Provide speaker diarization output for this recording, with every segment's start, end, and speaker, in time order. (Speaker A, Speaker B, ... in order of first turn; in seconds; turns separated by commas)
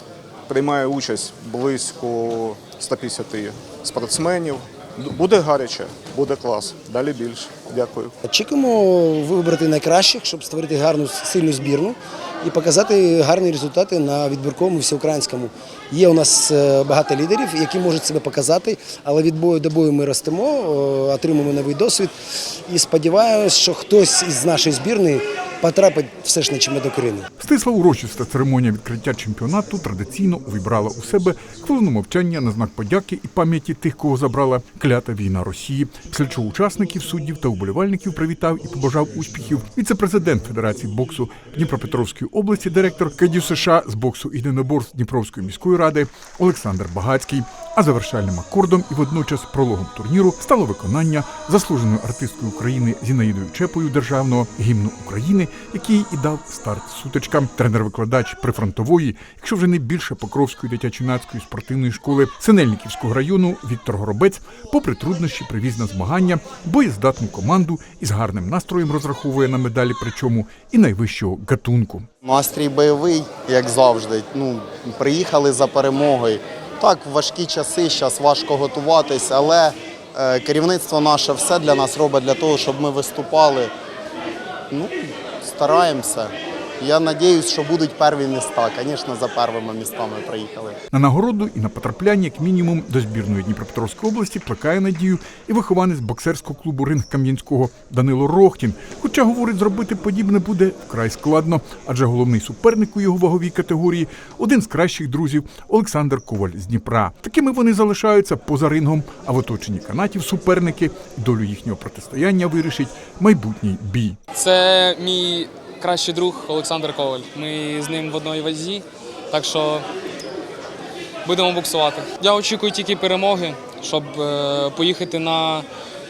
Speaker A: 0.5-8.1, Speaker B: 8.2-22.1, Speaker B: 22.7-27.3, Speaker C: 27.4-72.1, Speaker D: 72.2-83.7, Speaker D: 84.7-90.8, Speaker C: 90.9-114.2, Speaker E: 114.3-119.8, Speaker E: 121.2-125.7